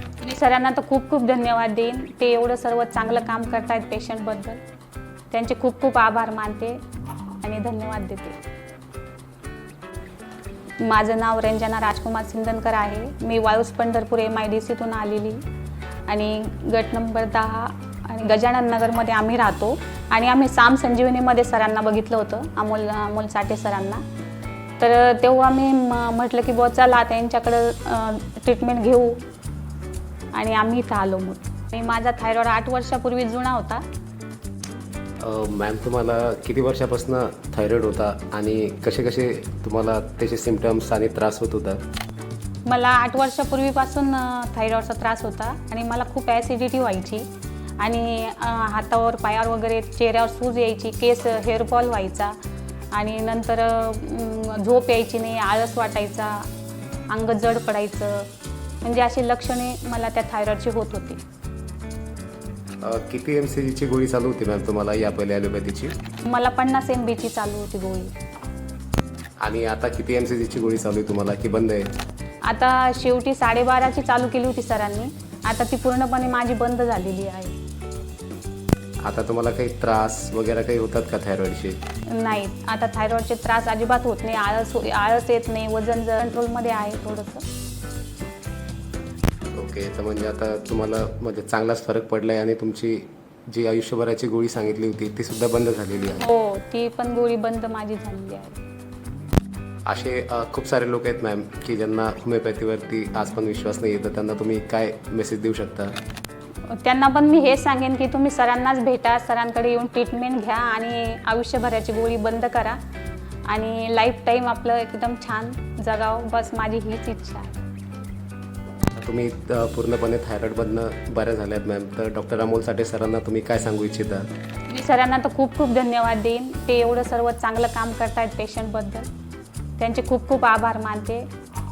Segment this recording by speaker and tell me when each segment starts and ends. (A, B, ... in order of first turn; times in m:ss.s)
0:00.2-0:04.6 A
0:05.3-0:06.8 A
0:07.4-0:08.4 A
0:10.8-0:15.4 A
0:16.1-0:24.0 A
0:24.8-0:29.2 A
0:30.3-0:33.8 A
0:35.2-0:41.8 B
0:42.6-0:52.4 A
0:52.9-0:56.5 A
0:57.1-0:58.3 A
0:58.8-1:01.2 A
1:02.8-1:05.9 B
1:06.2-1:08.1 A
1:09.4-1:11.9 B
1:12.4-1:17.6 A
1:19.0-1:21.8 B
1:22.1-1:27.4 A
1:29.5-1:36.3 B
1:36.2-1:38.6 A
1:39.8-1:46.0 B
1:46.7-1:52.8 A
1:53.4-1:57.6 A
1:58.9-2:04.3 B
2:04.7-2:09.1 A
2:09.8-2:11.3 A